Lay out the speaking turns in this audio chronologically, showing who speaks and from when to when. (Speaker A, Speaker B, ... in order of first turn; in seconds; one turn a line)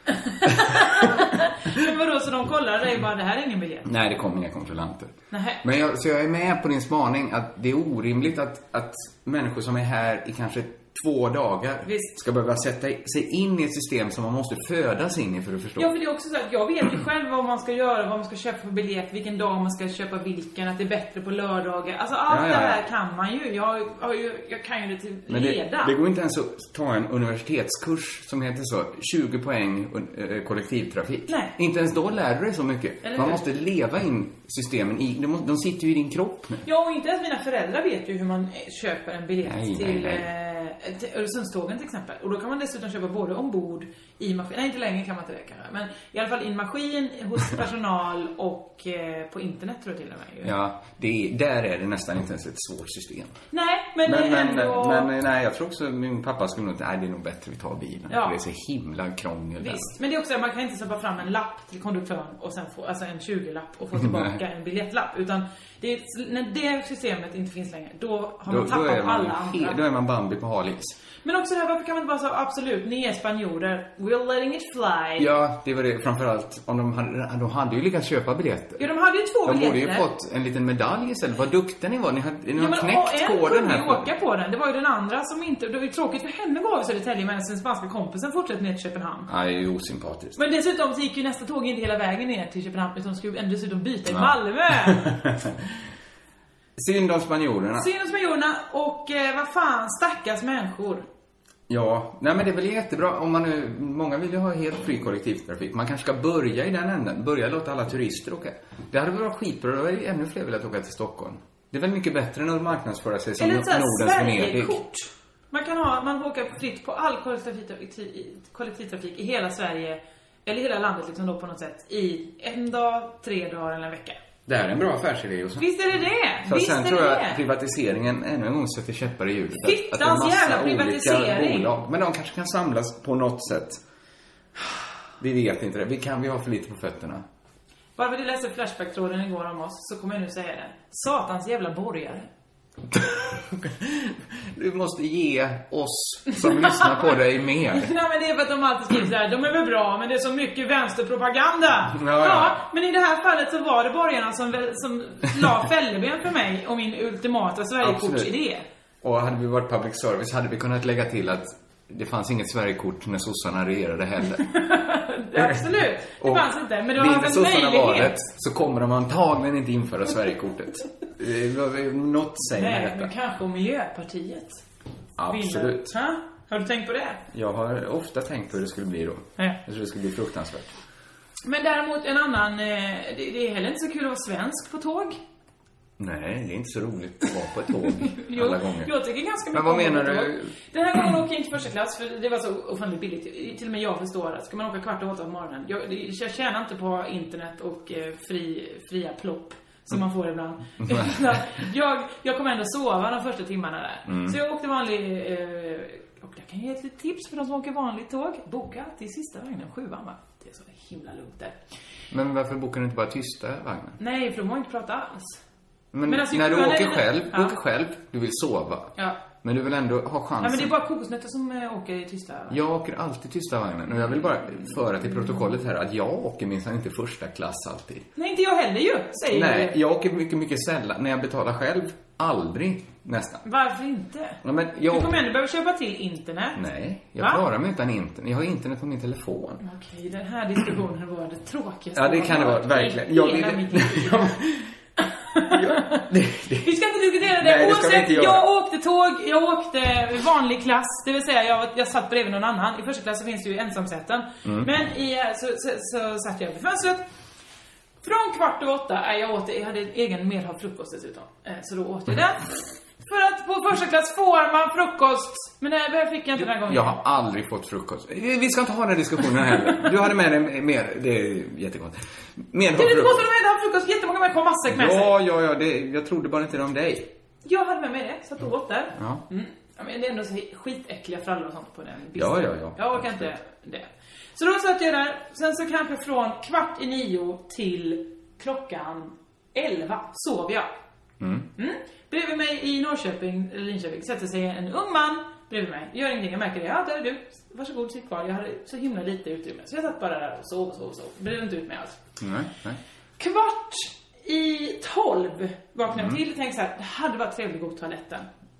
Speaker A: 0.3-3.9
Speaker B: 0.4-1.1
Speaker B: 3.9-15.9
Speaker A: 5.3-5.6
Speaker A: 11.8-12.1
Speaker A: 15.8-25.9
Speaker B: 22.3-22.8
Speaker B: 25.3-36.6
Speaker A: 31.3-31.5
Speaker A: 33.0-33.4
Speaker A: 36.6-50.5
Speaker B: 39.4-40.3
Speaker B: 50.4-53.4
Speaker A: 53.5-55.1
Speaker B: 54.0-59.9
Speaker A: 58.1-58.4
Speaker A: 59.6-69.8
Speaker B: 64.0-64.4
Speaker B: 68.5-71.0
Speaker A: 71.2-75.3
Speaker B: 75.2-78.9
Speaker A: 78.8-80.1
Speaker B: 79.5-84.1
Speaker A: 82.5-89.3
Speaker B: 89.3-90.4
Speaker A: 90.4-95.1
Speaker B: 94.1-95.6
Speaker B: 96.8-97.9
Speaker A: 97.8-101.1
Speaker B: 101.7-114.8
Speaker A: 113.4-124.2
Speaker B: 124.5-125.7
Speaker A: 125.6-127.4
Speaker B: 126.4-133.8
Speaker A: 129.6-131.7
Speaker B: 135.2-137.2
Speaker A: 138.0-142.3
Speaker B: 142.9-147.9
Speaker A: 146.4-147.2
Speaker A: 147.7-158.7
Speaker B: 151.9-152.6
Speaker B: 157.8-158.3
Speaker B: 159.0-164.5
Speaker A: 164.5-168.2
Speaker B: 165.3-173.1
Speaker A: 172.5-174.6
Speaker B: 175.2-175.9
Speaker A: 175.3-177.2
Speaker B: 177.3-180.8
Speaker A: 181.4-185.2
Speaker B: 186.0-188.9
Speaker A: 188.1-211.6
Speaker B: 189.5-190.5
Speaker B: 200.8-201.4
Speaker B: 204.1-204.4
Speaker B: 212.1-214.0
Speaker A: 214.0-215.4
Speaker B: 215.9-220.7
Speaker A: 216.1-217.6
Speaker A: 220.4-222.6
Speaker B: 222.5-228.1
Speaker A: 228.2-229.8
Speaker B: 229.3-233.4
Speaker A: 233.4-236.6
Speaker B: 234.4-235.2
Speaker B: 236.6-239.6
Speaker A: 237.2-237.4
Speaker A: 239.6-244.3
Speaker B: 241.9-244.7
Speaker A: 245.0-246.1
Speaker B: 245.5-246.7
Speaker A: 246.6-257.0
Speaker B: 247.3-248.5
Speaker B: 254.4-254.7
Speaker A: 258.0-267.0
Speaker B: 266.4-273.2
Speaker A: 272.7-275.1
Speaker B: 274.7-277.1
Speaker A: 277.4-290.7
Speaker B: 278.9-279.2
Speaker B: 282.1-283.3
Speaker B: 291.2-291.5
Speaker A: 291.6-302.0
Speaker B: 302.2-302.8
Speaker A: 303.2-308.3
Speaker B: 305.9-306.2